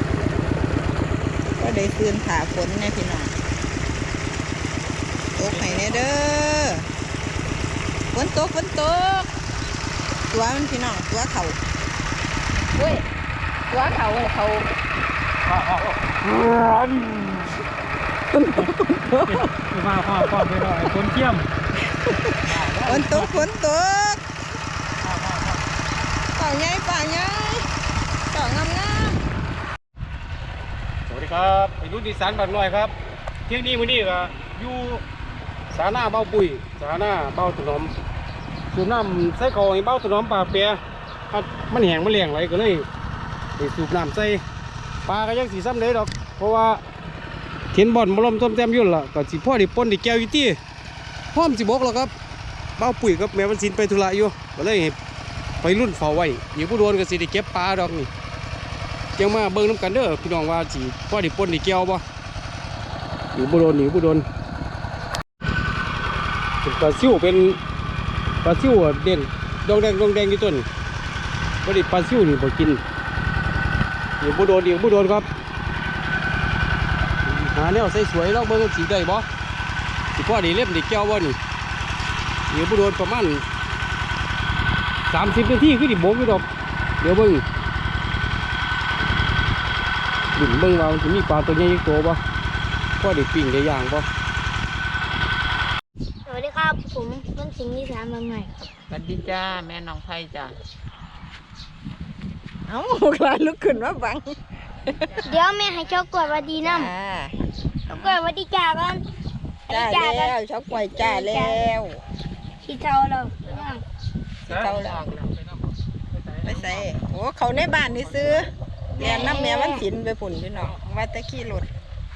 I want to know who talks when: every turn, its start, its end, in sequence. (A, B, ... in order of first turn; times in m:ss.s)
0:01.6-0:03.3 A
0:05.3-0:06.9 A
0:08.1-0:09.3 A
0:10.3-0:11.6 A
0:12.7-0:13.1 A
0:13.7-0:14.7 A
0:15.5-0:16.0 B
0:18.3-0:19.5 A
0:18.6-0:21.5 C
0:21.8-0:24.3 A
0:22.4-0:23.4 B
0:25.0-0:25.6 B
0:26.3-0:27.7 A
0:28.3-0:29.2 A
0:31.1-0:32.9 B
0:33.5-0:35.0 B
0:35.7-0:37.9 B
0:38.7-0:40.8 B
0:41.3-0:42.9 B
0:43.6-0:44.4 B
0:45.1-0:46.8 B
0:47.7-0:50.6 B
0:51.3-0:52.1 B
0:52.8-0:55.0 B
0:55.6-0:58.1 B
0:59.2-1:02.0 B
1:03.3-1:04.3 B
1:06.6-1:07.6 B
1:08.4-1:10.7 B
1:11.6-1:12.8 B
1:14.2-1:15.2 B
1:17.2-1:19.3 B
1:20.2-1:21.4 B
1:22.5-1:23.4 B
1:25.1-1:26.4 B
1:27.0-1:27.4 B
1:30.4-1:32.2 B
1:33.0-1:34.1 B
1:36.3-1:38.5 D
1:38.9-1:40.6 E
1:42.7-1:45.3 A
1:45.1-1:46.3 E
1:45.2-1:46.9 D
1:46.6-1:47.4 A
1:47.9-1:49.0 D
1:49.7-1:50.4 D
1:49.7-1:52.0 A
1:50.9-1:51.6 D
1:52.6-1:53.8 D
1:54.5-1:55.4 E
1:54.5-1:55.1 A
1:56.4-1:57.0 E
1:56.4-2:01.7 A
1:58.9-1:59.9 D